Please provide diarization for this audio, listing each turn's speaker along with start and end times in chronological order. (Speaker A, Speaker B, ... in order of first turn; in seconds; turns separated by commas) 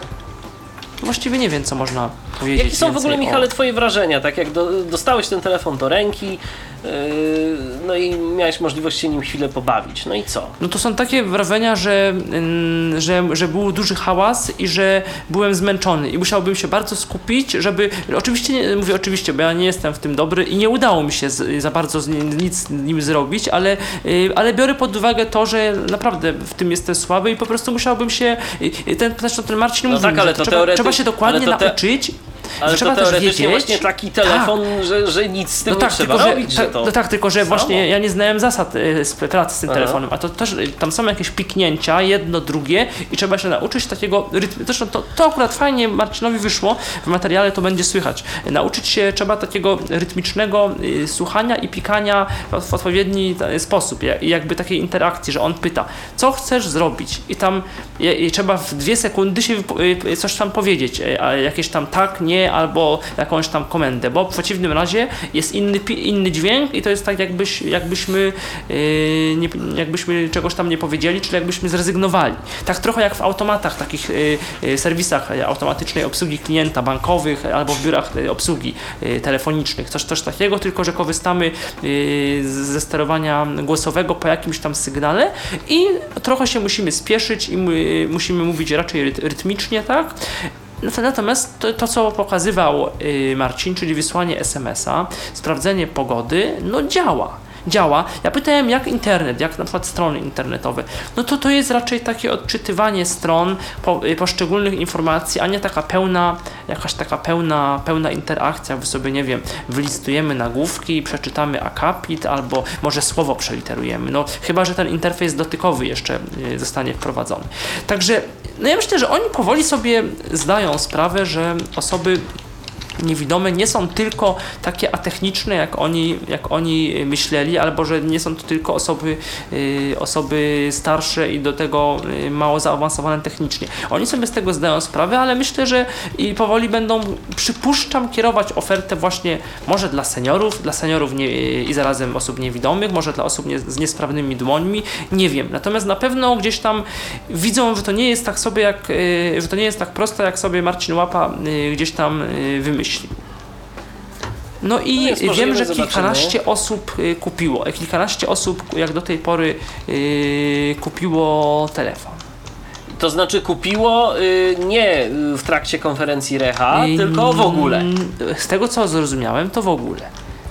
Speaker A: 1.0-3.5, Speaker B: 2.6-10.5, Speaker A: 10.6-34.6, Speaker B: 29.9-31.8, Speaker B: 32.6-36.9, Speaker A: 35.7-122.2, Speaker B: 37.5-37.9, Speaker B: 39.7-40.0, Speaker A: 123.0-153.1, Speaker A: 154.6-162.2, Speaker B: 155.0-156.3, Speaker B: 163.0-167.9, Speaker A: 166.7-170.1